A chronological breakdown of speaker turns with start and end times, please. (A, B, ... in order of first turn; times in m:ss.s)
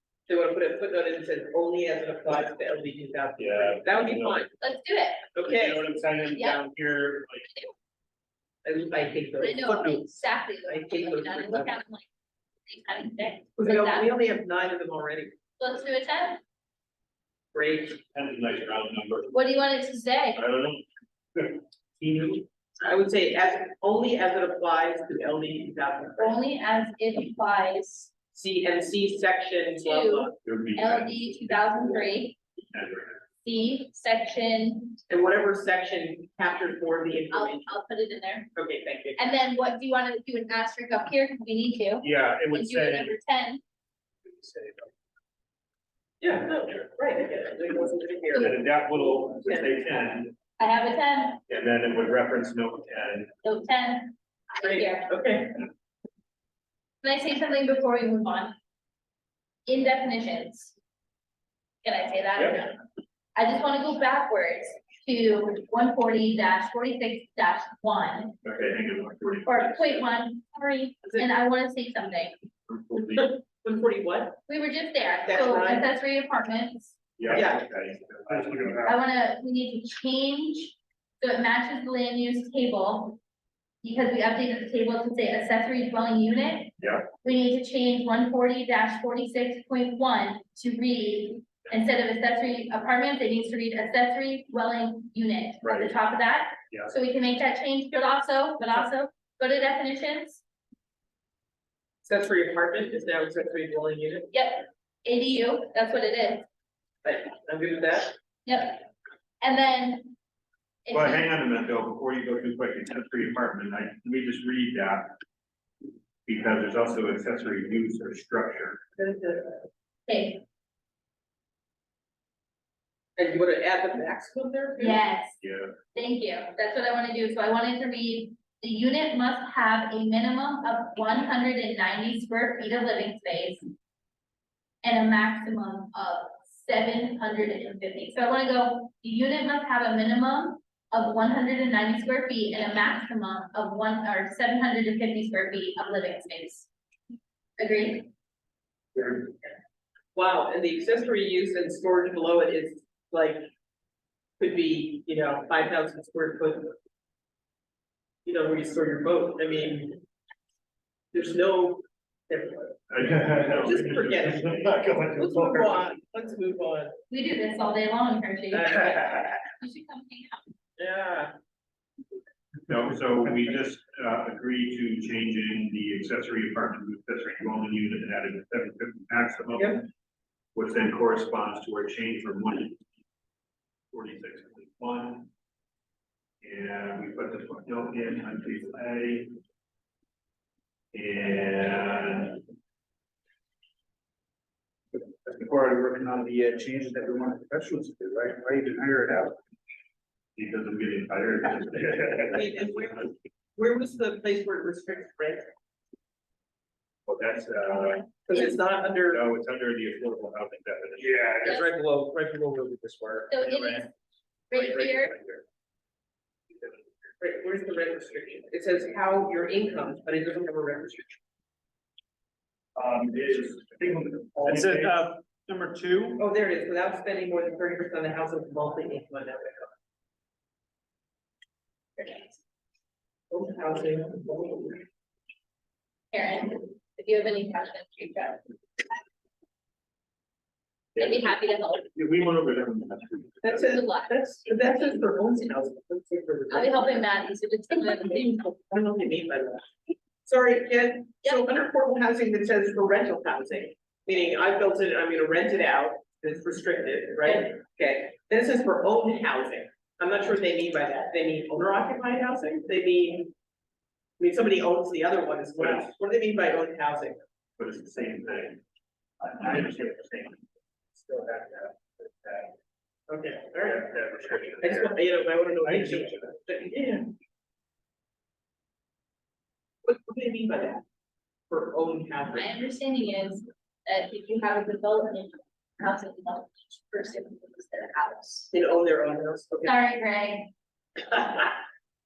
0:00.3-0:04.5 A
0:03.4-0:04.4 B
0:04.6-0:05.3 C
0:05.3-0:05.9 A
0:05.5-0:07.5 B
0:06.3-0:06.6 C
0:07.5-0:07.7 C
0:08.6-0:11.7 A
0:09.4-0:12.1 C
0:12.7-0:14.2 C
0:13.6-0:15.4 A
0:15.6-0:16.4 C
0:17.5-0:18.0 A
0:18.0-0:19.4 B
0:19.3-0:20.4 C
0:20.4-0:20.8 B
0:21.4-0:22.4 B
0:22.8-0:26.4 A
0:26.2-0:28.1 C
0:28.3-0:30.4 A
0:29.8-0:32.4 C
0:30.4-0:32.0 B
0:32.7-0:33.2 B
0:33.4-0:35.0 C
0:35.1-0:37.7 A
0:37.3-0:38.5 C
0:38.6-0:39.2 A
0:39.2-0:43.6 C
0:42.0-0:43.1 B
0:44.4-0:44.9 B
0:46.2-0:48.6 A
0:48.3-0:50.4 B
0:49.2-0:49.8 A
0:50.6-0:51.4 C
0:51.5-0:53.3 B
0:53.4-0:55.1 C
0:54.6-0:55.6 A
0:57.0-0:58.6 C
0:59.7-1:00.8 C
1:01.8-1:02.8 C
1:03.4-1:08.4 C
1:08.4-1:10.1 B
1:09.4-1:12.4 C
1:12.7-1:13.4 B
1:13.1-1:14.4 A
1:14.5-1:17.0 C
1:15.3-1:15.9 A
1:17.2-1:18.9 B
1:17.3-1:17.6 A
1:18.3-1:19.0 D
1:18.9-1:23.2 C
1:23.8-1:40.4 C
1:26.8-1:27.1 B
1:35.6-1:35.9 B
1:42.0-1:44.3 A
1:44.3-1:46.5 C
1:47.0-1:48.2 A
1:48.5-1:48.9 C
1:49.4-1:50.2 C
1:50.8-1:51.4 C
1:50.9-1:55.2 B
1:56.3-1:58.8 B
1:59.0-1:59.7 A
2:00.1-2:00.4 C
2:03.2-2:05.0 A
2:04.8-2:05.4 C
2:05.4-2:05.8 B
2:05.9-2:13.6 C
2:14.8-2:26.7 C
2:27.6-2:28.1 C
2:29.0-2:29.3 A
2:30.2-2:33.5 A
2:34.4-2:36.8 A
2:38.2-2:40.0 A
2:41.1-2:42.8 A
2:42.9-2:44.8 B
2:43.1-2:43.4 D
2:43.5-2:46.9 A
2:44.5-2:45.8 D
2:47.1-2:50.5 C
2:48.5-2:49.3 A
2:50.8-2:51.3 A
2:52.7-2:59.9 B
2:59.6-2:59.8 A
3:00.6-3:02.8 B
3:03.9-3:05.3 B
3:06.4-3:09.3 B
3:10.9-3:12.4 B
3:15.1-3:19.4 D
3:20.4-3:22.7 B
3:22.3-3:25.5 A
3:27.1-3:28.1 B
3:28.3-3:29.2 A
3:29.1-3:31.2 B
3:31.0-3:33.8 D
3:31.4-3:31.7 C
3:33.3-3:33.9 C
3:34.5-3:35.2 C
3:34.6-3:35.0 D
3:37.2-3:41.2 A
3:42.8-3:46.2 D
3:44.4-3:45.8 B
3:46.2-3:49.7 A
3:52.0-3:52.3 A
3:53.3-3:54.8 A
3:56.1-3:58.4 C
4:01.0-4:01.3 B
4:01.0-4:01.9 C
4:02.0-4:03.6 B
4:03.4-4:07.0 A
4:03.5-4:04.1 C
4:06.5-4:08.4 C
4:08.2-4:09.7 A
4:10.2-4:23.3 A
4:24.2-4:27.2 A
4:25.6-4:25.9 B
4:27.6-4:28.6 B
4:29.2-4:30.4 B
4:31.0-4:32.5 B
4:33.1-4:33.9 A
4:33.6-4:35.0 B
4:34.6-4:37.1 A
4:35.6-4:36.2 B
4:39.8-4:40.8 A
4:41.5-4:42.5 A
4:42.3-4:48.5 C
4:48.5-4:49.8 A
4:49.6-4:50.5 C
4:51.1-4:51.6 A